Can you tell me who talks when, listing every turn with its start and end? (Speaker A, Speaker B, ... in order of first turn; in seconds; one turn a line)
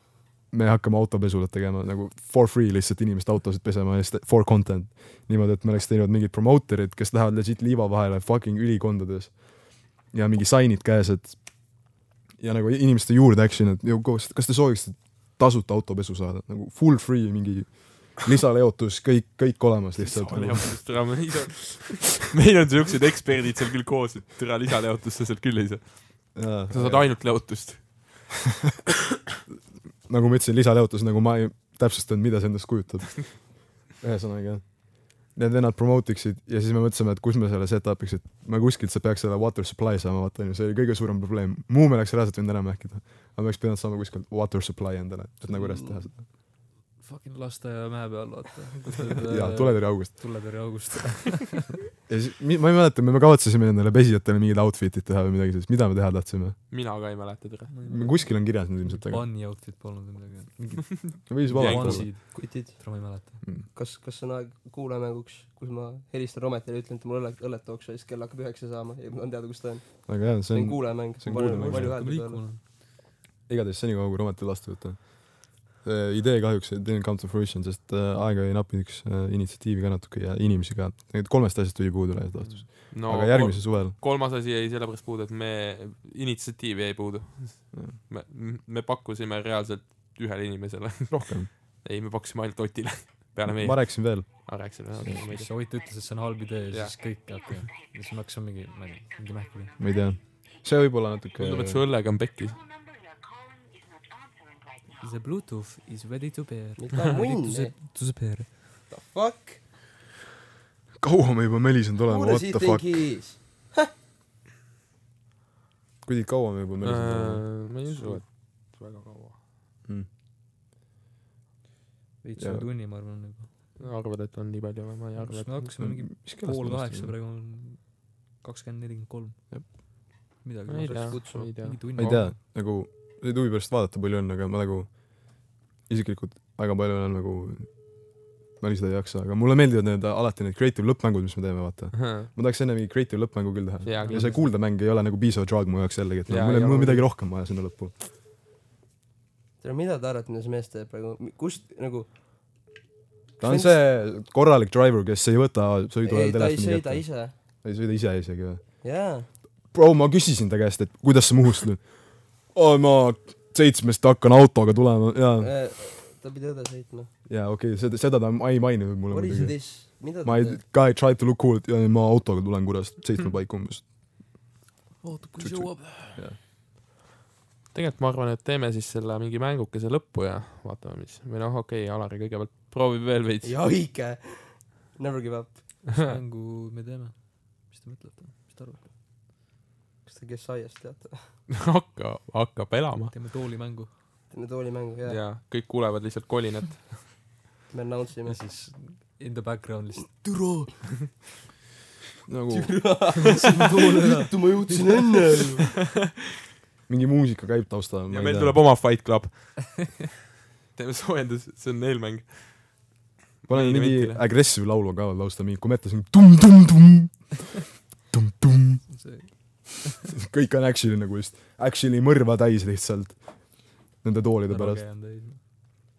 Speaker A: 0.5-21.3
Speaker B: 20.0-28.3
Speaker A: 26.3-27.5
Speaker A: 30.1-46.2
Speaker C: 45.5-46.0
Speaker D: 47.0-51.7
Speaker A: 49.3-50.6
Speaker A: 52.1-56.6
Speaker B: 56.7-57.7
Speaker D: 57.7-63.4
Speaker A: 57.8-59.3
Speaker A: 61.3-62.1
Speaker B: 61.5-62.1
Speaker C: 62.3-72.4
Speaker A: 70.0-71.9
Speaker D: 71.3-72.6
Speaker A: 73.5-83.9
Speaker B: 82.9-95.5
Speaker A: 87.7-88.0
Speaker A: 91.1-91.5
Speaker A: 93.5-95.2
Speaker D: 95.3-99.8
Speaker B: 96.7-97.0
Speaker A: 99.8-101.8
Speaker B: 101.4-102.7
Speaker D: 105.0-108.5
Speaker C: 106.8-107.7
Speaker C: 108.9-109.6
Speaker A: 111.0-113.0
Speaker C: 112.1-113.9
Speaker A: 116.0-118.2
Speaker B: 116.8-119.4
Speaker D: 122.2-123.8
Speaker A: 122.4-122.7
Speaker B: 123.8-125.8
Speaker D: 125.2-129.8
Speaker A: 125.8-127.1
Speaker D: 130.4-132.3
Speaker B: 130.7-132.3
Speaker C: 130.9-131.5
Speaker A: 131.9-147.9
Speaker B: 141.9-142.3
Speaker B: 143.8-144.4
Speaker D: 144.0-144.5
Speaker B: 146.3-147.1
Speaker C: 149.6-152.1
Speaker A: 153.4-158.7
Speaker C: 153.4-153.8
Speaker C: 156.0-157.3
Speaker C: 158.8-159.3
Speaker A: 159.7-165.5
Speaker C: 165.4-167.1
Speaker A: 167.3-173.8
Speaker C: 169.1-170.6
Speaker D: 175.0-176.2
Speaker A: 175.4-176.4
Speaker B: 177.7-183.5
Speaker C: 183.4-185.8
Speaker D: 186.0-188.9
Speaker C: 190.1-191.3
Speaker B: 191.5-193.1
Speaker D: 193.1-193.9
Speaker C: 194.3-195.2
Speaker B: 195.1-197.1
Speaker C: 197.7-198.4
Speaker D: 198.2-201.1
Speaker A: 202.3-203.1
Speaker C: 202.5-205.7
Speaker D: 203.5-205.0
Speaker A: 206.9-208.6
Speaker B: 208.1-210.0
Speaker B: 210.7-212.9
Speaker B: 213.4-214.2
Speaker A: 213.5-219.4
Speaker D: 218.9-219.9
Speaker A: 220.2-224.8
Speaker D: 224.5-225.4